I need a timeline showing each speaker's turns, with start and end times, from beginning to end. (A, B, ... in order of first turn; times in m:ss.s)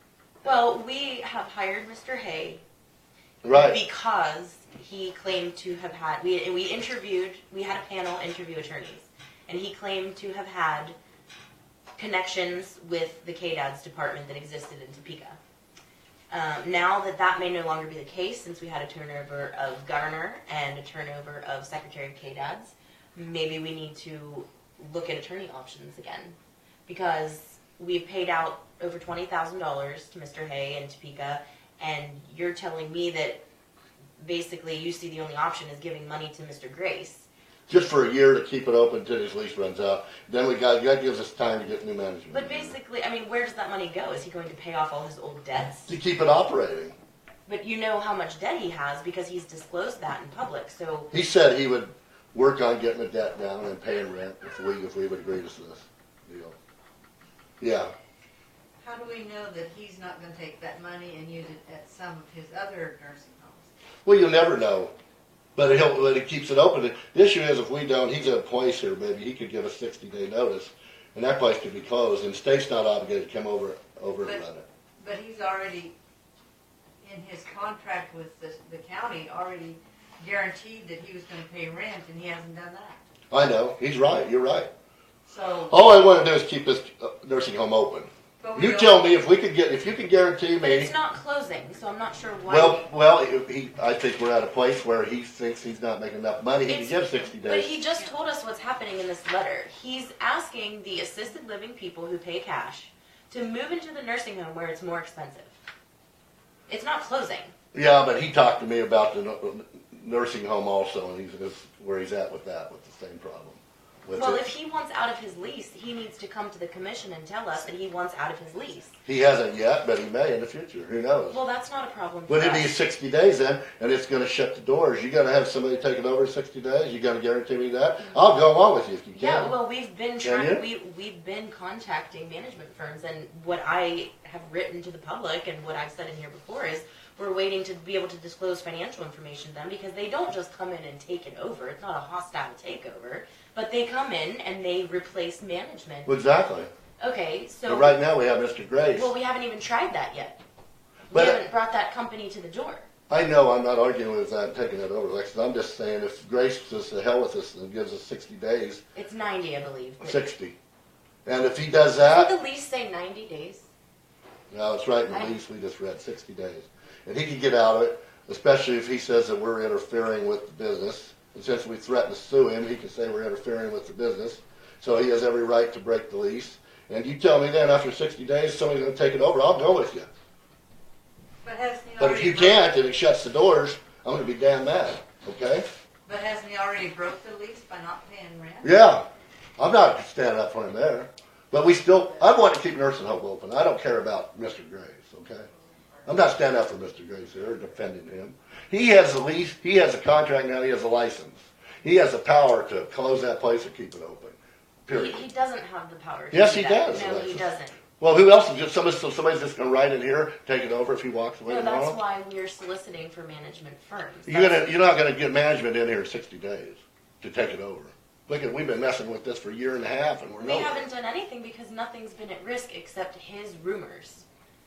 0:00.4-0:02.6 A
0:03.4-0:03.8 B
0:03.5-0:11.0 A
0:12.0-0:15.4 A
0:16.3-0:26.4 A
0:26.9-0:33.4 A
0:34.2-0:37.3 A
0:37.7-0:42.8 B
0:42.3-0:45.9 A
0:45.9-0:46.9 B
0:47.5-0:51.1 A
0:51.1-0:56.6 B
0:57.6-0:57.9 B
0:58.8-1:03.7 C
1:04.0-1:04.9 B
1:05.6-1:14.6 B
1:15.0-1:15.9 C
1:17.0-1:23.0 C
1:23.3-1:24.7 B
1:25.2-1:25.7 C
1:25.7-1:30.9 B
1:28.4-1:29.1 C
1:30.6-1:32.9 A
1:32.5-1:37.8 B
1:36.6-1:45.5 A
1:46.7-1:47.5 A
1:47.7-1:54.4 B
1:54.1-1:58.9 A
1:59.0-2:01.4 B
2:01.3-2:02.7 A
2:02.3-2:09.5 B
2:09.1-2:26.1 A
2:10.2-2:10.6 B
2:26.0-2:26.7 B
2:27.0-2:28.0 A
2:27.6-2:29.1 B
2:28.9-2:30.4 A
2:31.1-2:32.9 A
2:31.1-2:31.4 B
2:33.1-2:38.8 B
2:38.9-2:40.3 A
2:40.0-2:40.6 B
2:41.2-2:42.3 B
2:42.0-2:43.7 A
2:44.5-3:00.1 B
3:01.4-3:02.6 C
3:02.0-3:05.6 B
3:06.0-3:08.7 C
3:08.6-3:09.0 B
3:09.6-3:15.5 B
3:16.0-3:24.4 B
3:24.9-3:25.2 B
3:24.9-3:27.8 A
3:26.3-3:27.5 B
3:28.0-3:32.0 B
3:31.4-3:34.6 A
3:34.2-3:40.8 B
3:40.4-3:44.2 A